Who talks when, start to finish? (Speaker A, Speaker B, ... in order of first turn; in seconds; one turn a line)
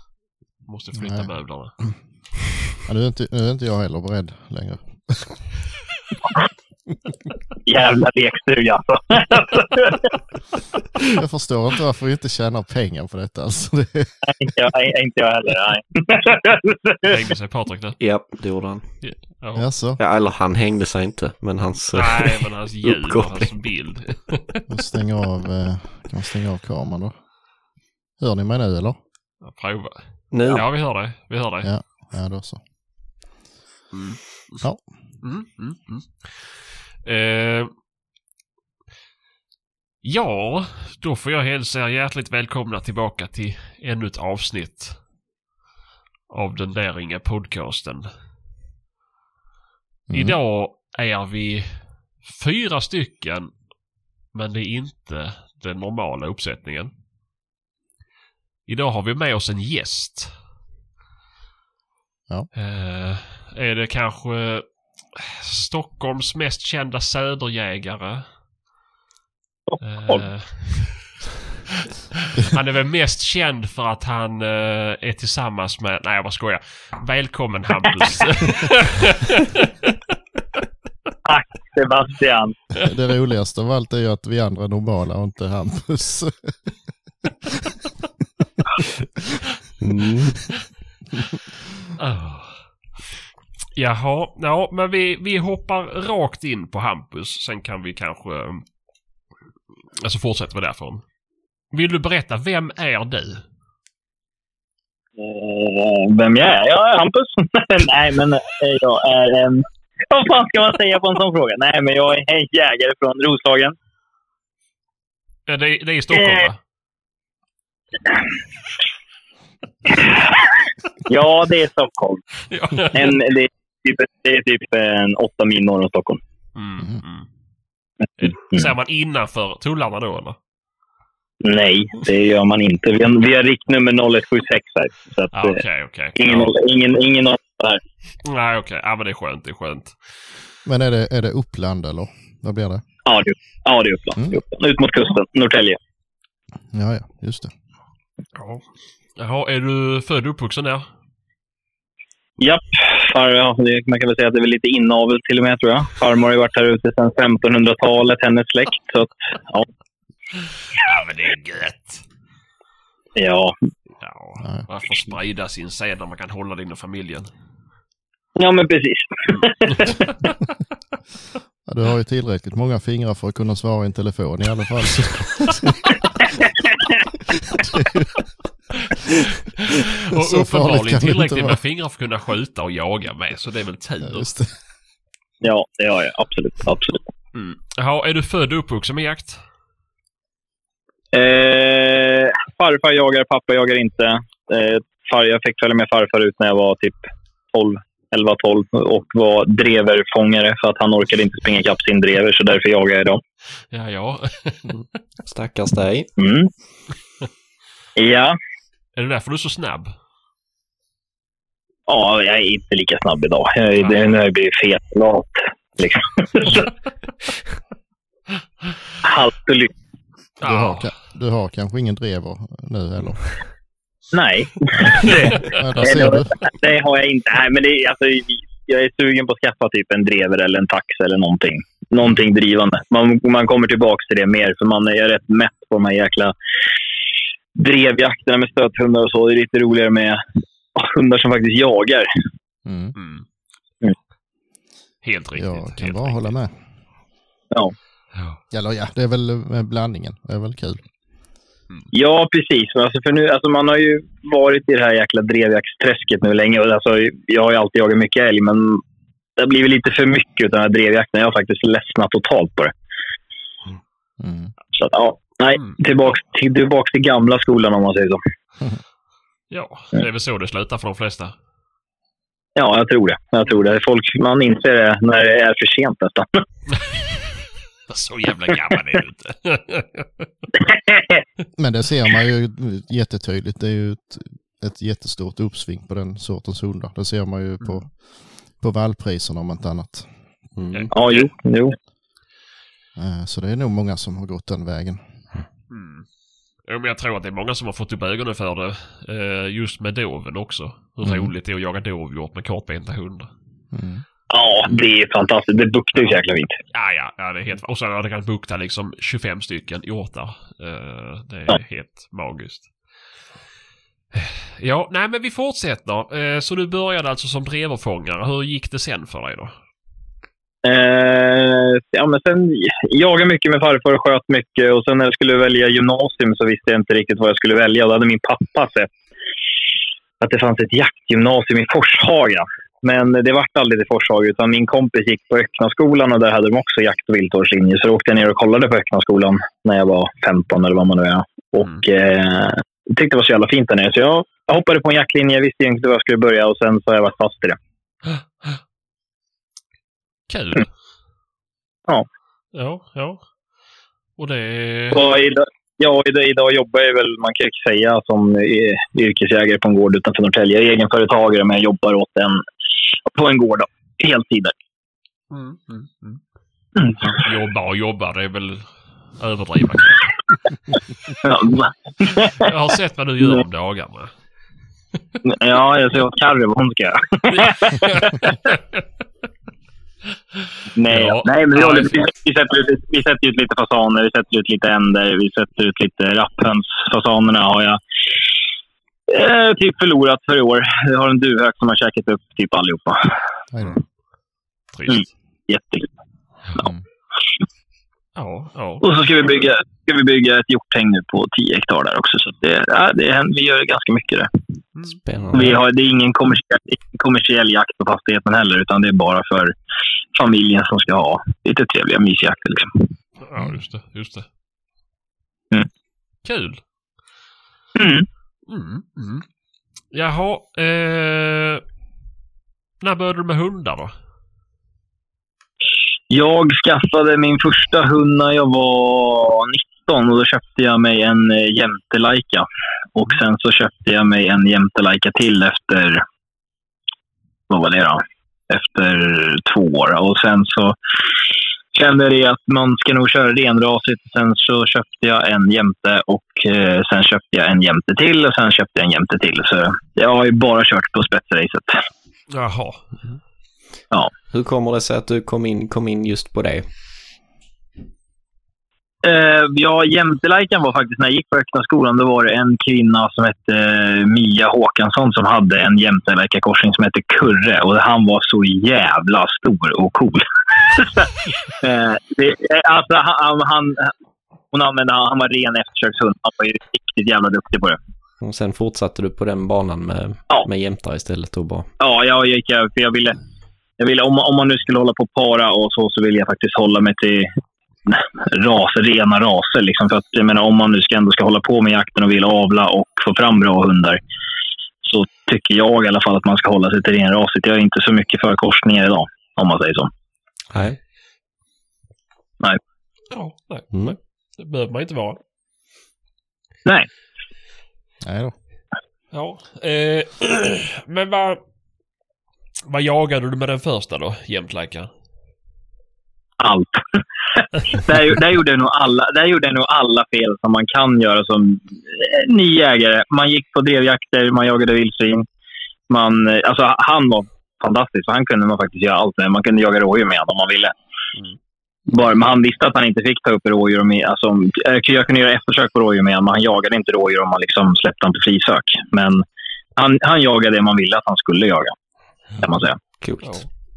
Speaker A: 0.7-2.0
Speaker B: 1.0-1.9
Speaker B: 2.8-5.5
Speaker C: 7.6-9.9
Speaker B: 11.1-14.1
Speaker C: 14.2-17.1
Speaker A: 17.1-18.0
Speaker D: 18.0-19.3
Speaker A: 19.0-19.7
Speaker B: 19.5-20.0
Speaker D: 20.0-23.5
Speaker A: 21.9-24.6
Speaker B: 24.7-27.3
Speaker B: 28.2-29.0
Speaker A: 29.4-31.7
Speaker D: 30.3-30.6
Speaker B: 31.6-32.6
Speaker A: 33.9-37.7
Speaker B: 34.6-35.2
Speaker A: 40.0-45.0
Speaker A: 46.3-48.1
Speaker B: 50.1-50.4
Speaker A: 50.1-53.5
Speaker A: 54.3-56.9
Speaker A: 58.7-60.4
Speaker A: 62.5-68.3
Speaker C: 69.7-70.2
Speaker A: 69.8-71.2
Speaker A: 72.3-79.9
Speaker C: 81.2-82.6
Speaker B: 82.8-86.7
Speaker D: 89.8-90.5
Speaker A: 92.0-93.2
Speaker A: 93.7-98.7
Speaker A: 100.0-101.0
Speaker A: 101.7-103.4
Speaker C: 105.2-113.7
Speaker A: 115.5-116.6
Speaker C: 116.1-116.5
Speaker C: 121.0-122.2
Speaker A: 122.5-123.2
Speaker C: 122.9-126.2
Speaker A: 126.5-127.3
Speaker A: 128.2-130.4
Speaker C: 131.4-135.6
Speaker A: 135.3-136.5
Speaker C: 136.2-137.8
Speaker A: 138.2-140.0
Speaker B: 140.6-142.8
Speaker C: 143.1-145.8
Speaker B: 146.7-147.5
Speaker A: 148.3-150.9
Speaker C: 152.4-159.7
Speaker A: 160.8-162.0
Speaker C: 163.2-163.6
Speaker A: 164.0-167.3
Speaker B: 164.4-164.7
Speaker C: 168.4-170.1
Speaker B: 171.6-175.8
Speaker B: 177.5-178.1
Speaker A: 179.7-184.3
Speaker B: 180.2-181.6
Speaker B: 184.0-184.6
Speaker C: 185.4-187.0
Speaker A: 187.3-189.4
Speaker C: 191.1-203.2
Speaker A: 203.7-204.7
Speaker D: 204.7-206.1
Speaker C: 206.2-206.5
Speaker C: 207.9-208.3
Speaker A: 208.9-209.9
Speaker C: 211.9-216.7
Speaker C: 219.0-219.7
Speaker A: 220.4-220.9
Speaker B: 220.4-223.4
Speaker C: 224.1-236.3
Speaker B: 225.4-226.3
Speaker C: 237.6-240.2
Speaker C: 240.8-242.1
Speaker B: 242.7-242.9
Speaker A: 242.9-243.2
Speaker A: 245.0-246.3
Speaker B: 245.3-246.6
Speaker A: 248.1-248.4
Speaker B: 248.5-250.8
Speaker C: 251.9-258.8
Speaker C: 259.4-262.7
Speaker B: 264.2-264.5
Speaker C: 264.7-268.2
Speaker A: 269.5-271.3
Speaker C: 272.6-276.4
Speaker A: 277.9-280.3
Speaker C: 280.7-281.2
Speaker B: 281.6-290.1
Speaker D: 290.6-290.9
Speaker A: 290.7-291.3
Speaker C: 290.9-291.7
Speaker B: 292.9-295.2
Speaker A: 295.7-296.1
Speaker A: 296.6-303.3
Speaker B: 301.0-301.3
Speaker B: 303.7-304.0
Speaker C: 304.3-306.6
Speaker A: 306.7-312.7
Speaker A: 314.1-319.5
Speaker C: 320.6-328.9
Speaker C: 330.2-347.6
Speaker A: 348.1-348.6
Speaker A: 350.3-350.7
Speaker A: 352.5-353.2
Speaker A: 354.2-355.1
Speaker C: 354.9-362.4
Speaker C: 363.1-364.5
Speaker A: 365.3-366.2
Speaker A: 367.1-370.2
Speaker C: 371.2-372.5
Speaker A: 372.4-374.1
Speaker C: 375.2-378.2
Speaker A: 377.4-378.6
Speaker C: 380.7-387.8
Speaker A: 380.9-382.0
Speaker C: 389.1-393.1
Speaker B: 393.5-393.8
Speaker A: 394.7-395.1
Speaker C: 394.9-395.9
Speaker B: 396.6-396.8
Speaker A: 398.1-398.8
Speaker C: 398.8-404.3
Speaker D: 404.9-405.6
Speaker C: 405.3-409.5
Speaker C: 410.1-412.9
Speaker A: 413.2-414.3
Speaker A: 416.2-416.6
Speaker C: 417.7-418.1
Speaker A: 418.5-419.2
Speaker A: 419.9-421.6
Speaker A: 422.8-423.9
Speaker C: 426.1-436.0
Speaker C: 437.5-440.8
Speaker C: 441.7-451.8
Speaker A: 452.3-452.9
Speaker D: 454.3-456.6
Speaker C: 459.0-473.9
Speaker C: 474.5-477.8
Speaker D: 478.2-481.7
Speaker C: 481.8-483.1
Speaker C: 483.8-487.3
Speaker C: 487.9-494.0
Speaker C: 494.8-499.9
Speaker D: 500.5-500.8
Speaker A: 503.1-505.2
Speaker D: 503.7-504.0
Speaker B: 508.0-508.3
Speaker A: 509.1-511.4
Speaker A: 512.7-514.9
Speaker C: 516.4-517.0
Speaker C: 517.7-525.2
Speaker C: 525.9-530.7
Speaker C: 531.9-539.2
Speaker C: 539.8-541.7
Speaker C: 542.4-542.8
Speaker D: 543.0-543.5